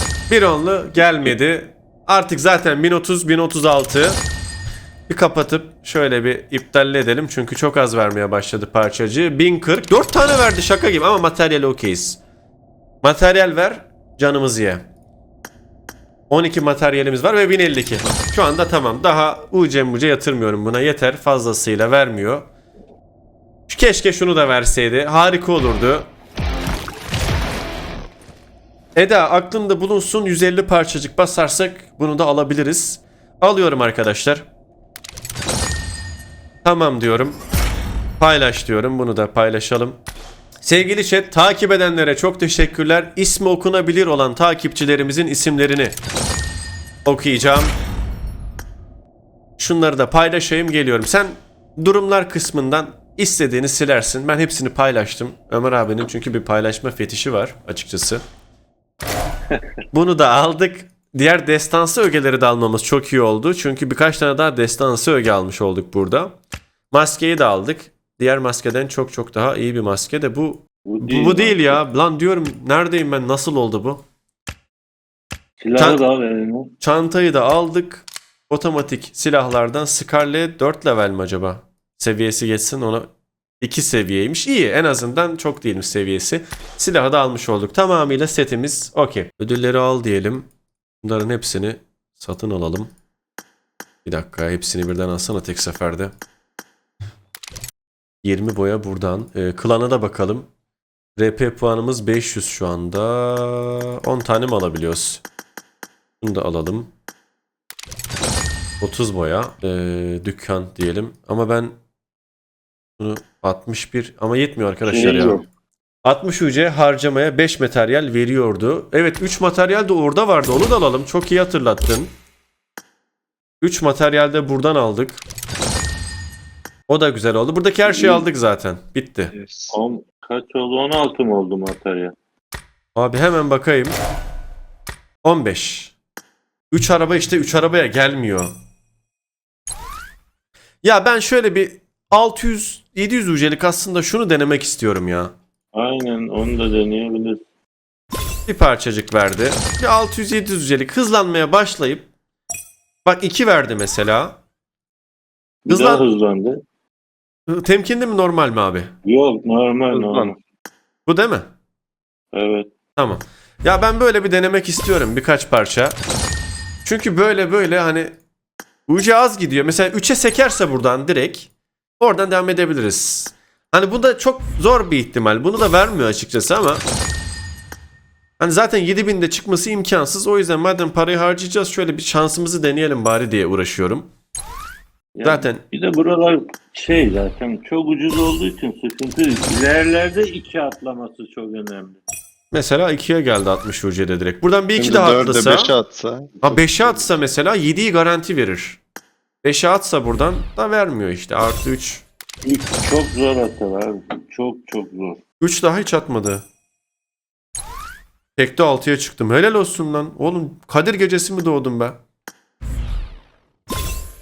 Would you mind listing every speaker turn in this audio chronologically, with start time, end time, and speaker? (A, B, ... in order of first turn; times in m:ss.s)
0:00.3-0:04.2 A
0:05.1-0:12.2 A
0:13.0-0:14.8 A
0:16.3-0:22.5 A
0:23.7-0:26.1 A
0:29.0-0:34.4 A
0:36.6-0:37.4 A
0:38.2-0:40.0 A
0:40.6-0:46.0 A
0:47.0-0:47.8 A
0:49.6-0:58.2 A
0:59.9-1:06.3 A
1:06.9-1:14.0 A
1:10.9-1:11.8 B
1:15.6-1:16.7 B
1:15.8-1:16.0 A
1:16.8-1:23.1 A
1:23.6-1:30.5 A
1:31.0-1:32.9 A
1:34.0-1:36.1 A
1:38.2-1:40.5 A
1:41.2-1:45.2 A
1:46.2-1:46.9 A
1:48.8-1:51.8 A
1:53.0-1:55.4 A
1:54.9-1:55.4 B
1:56.0-2:02.1 A
2:03.6-2:05.2 A
2:06.9-2:09.3 A
2:07.9-2:08.2 B
2:09.3-2:09.8 C
2:09.7-2:12.1 B
2:13.0-2:14.0 A
2:15.2-2:15.9 A
2:16.7-2:18.5 A
2:20.8-2:25.3 A
2:25.7-2:27.4 B
2:28.5-2:32.1 A
2:33.0-2:34.4 A
2:35.7-2:36.6 B
2:35.7-2:36.0 A
2:37.5-2:38.9 A
2:39.0-2:40.4 B
2:39.9-2:40.3 C
2:41.1-2:41.5 A
2:42.3-2:42.7 B
2:43.0-2:46.0 A
2:46.8-2:48.1 A
2:48.9-2:51.5 A
2:52.0-2:56.8 A
2:58.4-3:04.1 A
3:05.2-3:12.0 B
3:05.2-3:05.6 A
3:12.5-3:15.7 A
3:14.8-3:17.1 C
3:16.4-3:18.8 A
3:19.4-3:22.0 A
3:22.4-3:25.2 B
3:25.4-3:26.4 A
3:28.4-3:32.0 A